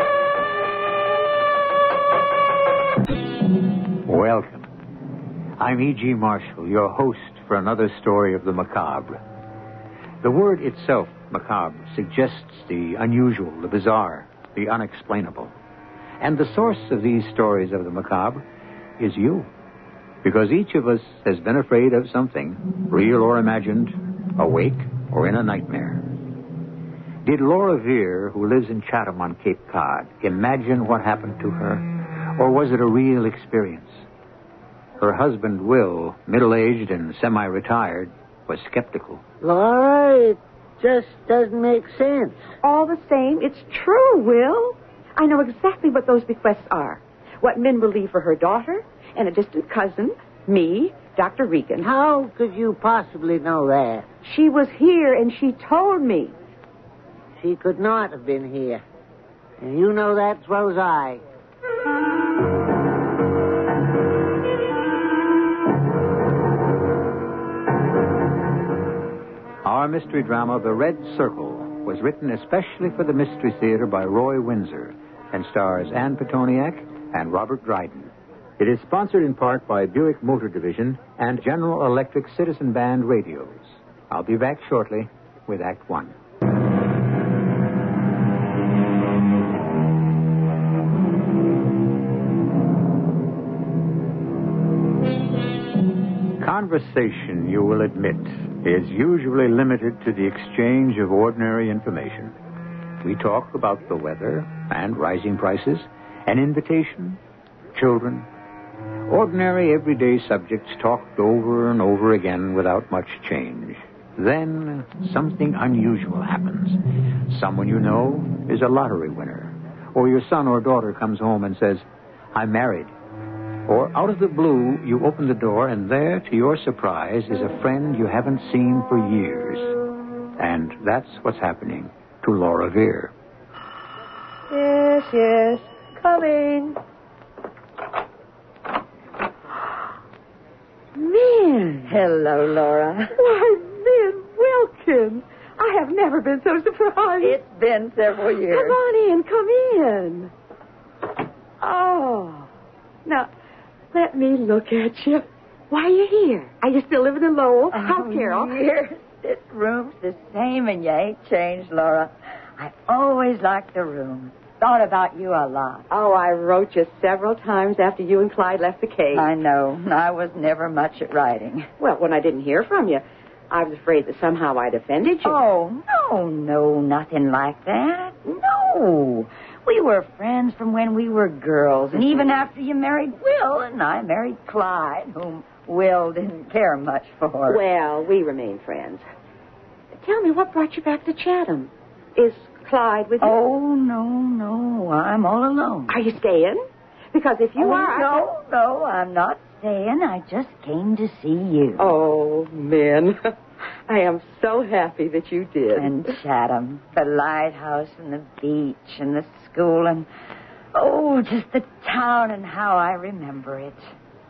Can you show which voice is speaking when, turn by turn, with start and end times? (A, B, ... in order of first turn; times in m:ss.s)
0:04.0-0:04.7 A
0:05.6-0:09.2 A
0:10.2-0:15.5 A
0:16.2-0:18.4 A
0:19.0-0:19.5 A
0:20.2-0:26.0 A
0:27.2-0:34.0 A
0:35.0-0:39.2 A
0:39.4-0:42.4 B
0:42.6-0:51.9 C
0:51.8-0:54.1 B
0:54.2-0:56.3 C
0:57.4-0:58.8 B
0:59.6-1:01.2 B
1:09.6-1:26.1 A
1:36.4-1:42.3 A
1:43.0-1:47.2 A
1:47.8-1:48.3 A
1:49.1-2:02.9 A
2:03.7-2:09.7 A
2:10.4-2:13.1 A
2:14.5-2:15.7 C
2:16.0-2:16.8 D
2:20.9-2:22.0 C
2:21.9-2:23.1 D
2:23.2-2:27.4 C
2:27.2-2:28.8 D
2:28.5-2:30.3 C
2:31.6-2:32.5 C
2:33.9-2:38.6 C
2:37.7-2:45.8 D
2:45.9-2:49.3 C
2:49.1-2:51.7 D
2:51.8-2:55.4 C
2:55.2-3:07.6 D
3:01.9-3:02.4 C
3:07.5-3:09.0 C
3:10.0-3:13.4 C
3:13.2-3:16.0 D
3:15.9-3:16.6 C
3:17.1-3:18.2 C
3:17.6-3:21.9 D
3:21.8-3:23.3 C
3:23.9-3:26.1 C
3:25.8-3:30.1 D
3:30.7-3:33.8 D